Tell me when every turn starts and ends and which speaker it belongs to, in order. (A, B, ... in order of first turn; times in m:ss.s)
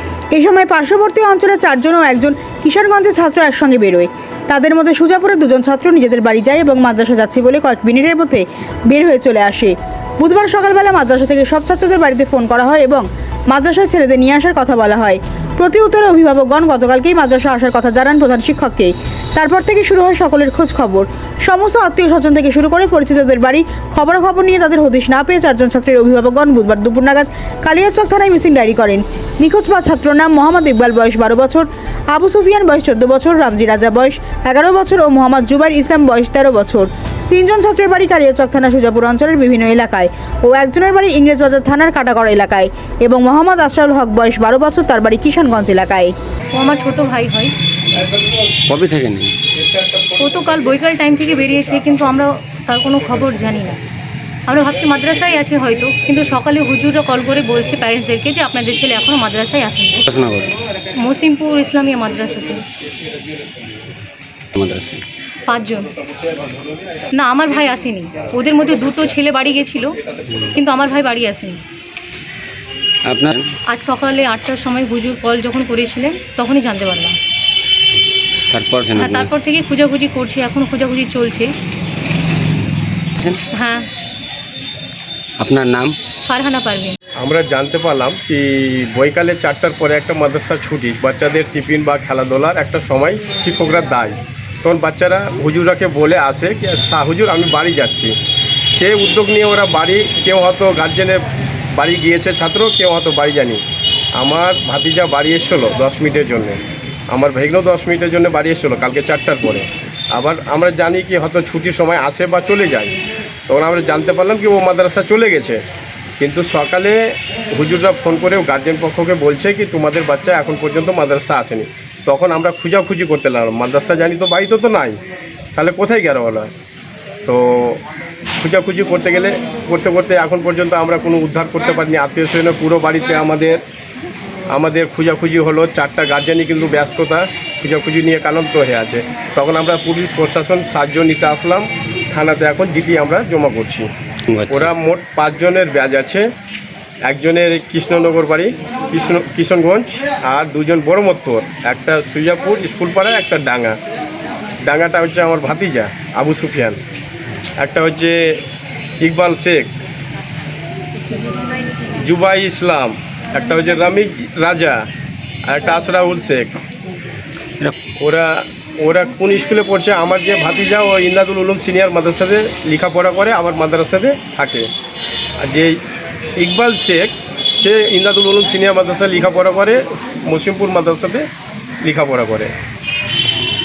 0:00.3-0:46.1 A
0:46.5-0:47.5 B
0:48.7-0:49.3 C
0:50.2-0:53.8 B
0:54.4-1:00.0 B
1:00.1-1:00.5 C
1:01.0-1:02.6 B
1:04.5-1:05.0 C
1:05.5-1:05.9 B
1:07.1-1:09.9 B
1:10.5-1:11.6 B
1:13.0-1:13.5 C
1:13.7-1:17.2 B
1:18.5-1:19.3 C
1:19.0-1:21.5 B
1:23.5-1:23.8 B
1:25.4-1:25.9 C
1:26.3-1:26.9 B
1:27.2-1:38.1 D
1:38.7-1:41.2 D
1:41.7-1:43.6 D
1:44.2-1:52.9 D
1:53.5-1:55.6 D
1:56.2-1:57.0 D
1:57.5-2:05.0 D
2:05.5-2:06.5 D
2:07.2-2:07.8 D
2:08.4-2:13.6 D
2:14.5-2:23.9 D
2:24.3-2:24.7 C
2:24.5-2:26.2 D
2:27.0-2:33.8 D
2:34.6-2:36.8 D
2:37.6-2:38.2 D
2:39.0-2:39.7 D
2:42.0-2:44.8 D
2:45.4-2:46.5 D
2:48.0-2:54.7 D
2:55.4-2:55.7 D
2:56.4-3:01.2 D
3:01.8-3:02.5 D